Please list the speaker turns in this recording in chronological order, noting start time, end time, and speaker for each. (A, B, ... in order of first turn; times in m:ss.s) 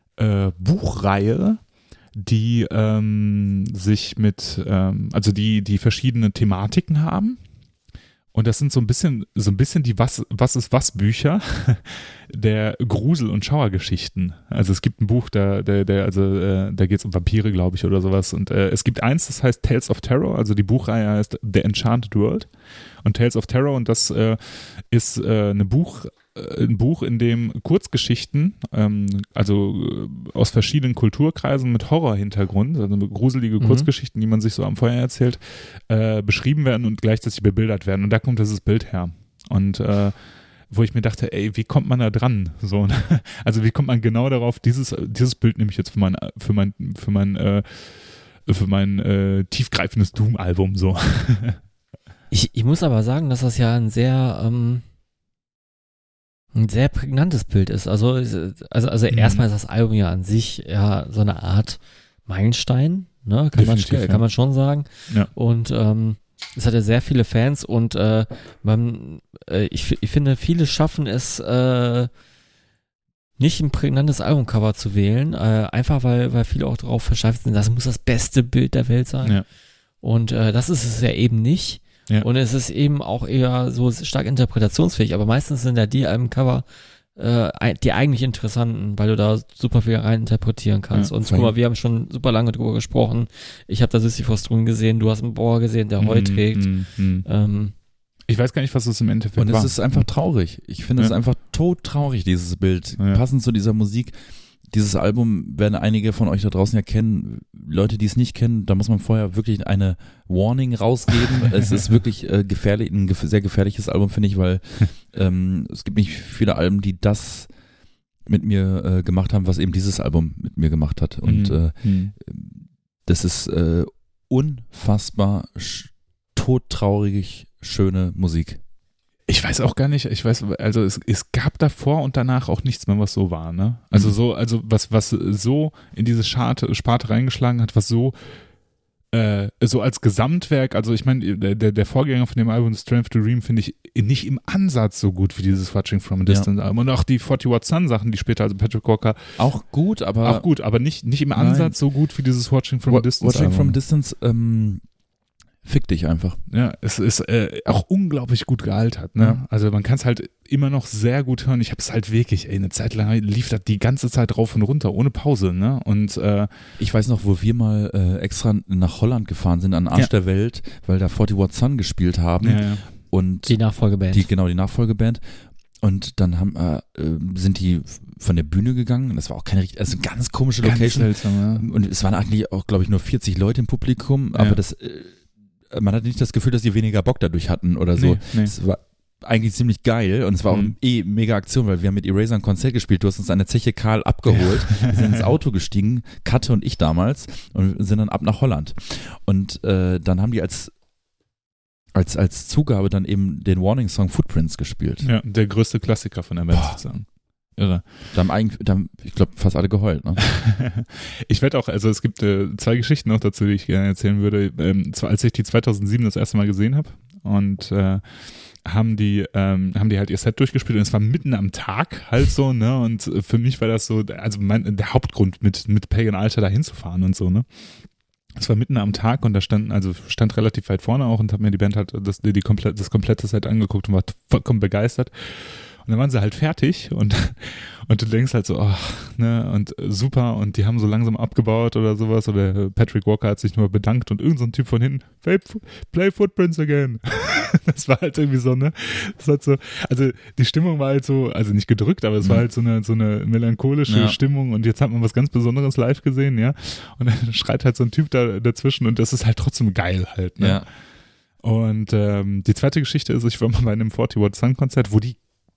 0:00.2-0:07.4 A
0:08.3-0:22.5 A
0:23.0-0:40.2 A
0:33.6-0:33.9 B
0:40.7-0:51.6 A
0:52.3-0:54.8 B
0:56.6-1:12.1 B
0:59.1-0:59.4 A
1:03.6-1:04.2 A
1:13.4-1:37.7 B
1:31.2-1:31.6 C
1:36.0-1:37.3 A
1:38.3-1:40.1 A
1:39.4-1:44.2 C
1:44.7-1:57.5 C
1:58.3-2:08.6 C
2:01.2-2:02.1 A
2:09.3-2:18.5 A
2:19.1-2:29.4 A
2:29.4-2:30.5 C
2:30.2-2:33.8 A
2:31.4-2:31.8 C
2:32.9-2:34.8 C
2:35.6-2:36.4 C
2:36.5-2:46.5 A
2:46.8-2:55.2 C
2:52.4-2:52.9 A
2:53.5-2:54.3 B
2:55.8-3:20.7 C
3:00.6-3:01.7 A
3:08.0-3:08.6 A
3:10.5-3:10.8 A
3:14.7-3:15.1 A
3:21.9-3:25.1 C
3:25.0-3:27.8 A
3:26.5-3:26.8 C
3:28.1-3:30.3 C
3:30.3-3:47.5 A
3:48.4-4:20.7 A
4:13.9-4:14.2 C
4:20.4-4:20.7 C
4:21.4-4:25.2 A